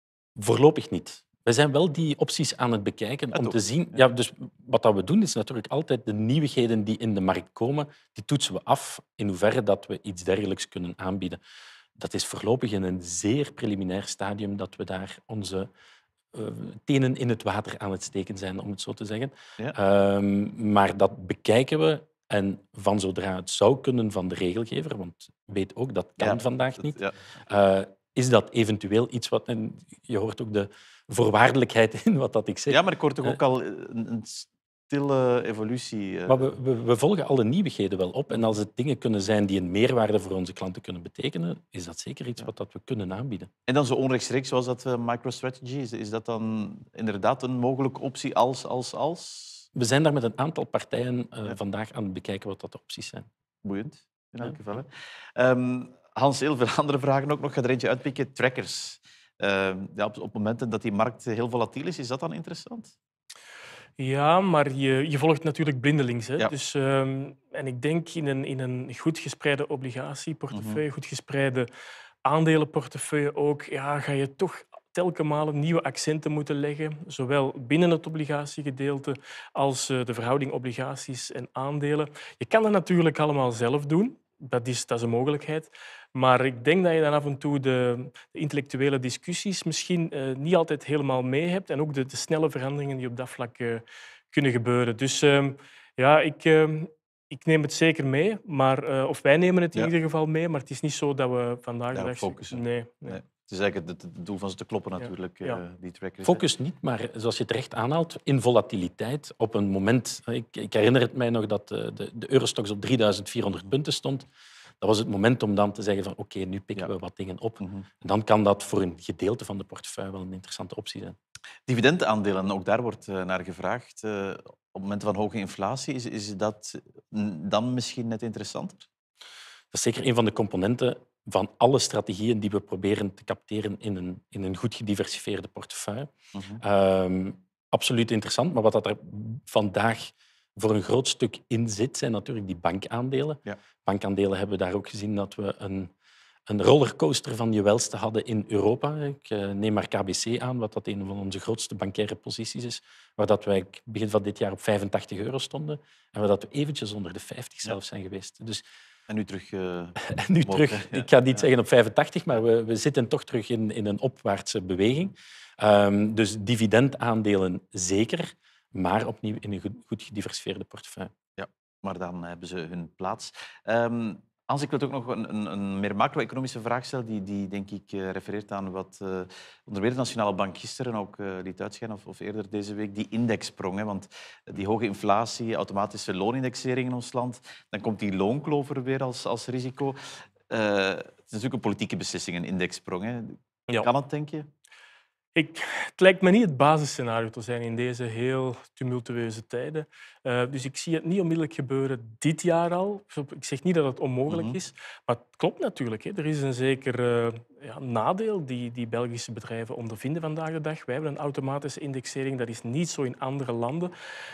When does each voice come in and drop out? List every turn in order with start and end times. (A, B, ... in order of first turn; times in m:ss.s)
0:00.4-0:11.4 A
0:03.3-0:04.0 B
0:12.0-0:15.7 A
0:16.3-0:33.4 A
0:26.2-0:27.2 B
0:32.7-0:36.5 B
0:36.3-0:43.5 A
0:43.7-0:49.7 B
0:49.8-0:53.3 A
0:53.6-1:02.9 B
1:04.0-1:11.7 C
1:10.5-1:10.8 B
1:12.2-1:43.2 C
1:41.9-1:46.4 B
1:45.0-1:45.6 C
1:46.2-1:54.3 A
1:54.8-2:01.2 A
1:57.6-1:57.9 B
2:01.7-2:08.9 B
2:09.7-2:25.9 A
2:16.4-2:16.6 B
2:26.5-2:38.6 A
2:39.1-2:41.4 B
2:40.1-2:51.1 A
2:51.4-3:10.0 B
3:10.5-3:14.5 B
3:15.4-3:33.9 C
3:24.3-3:24.6 B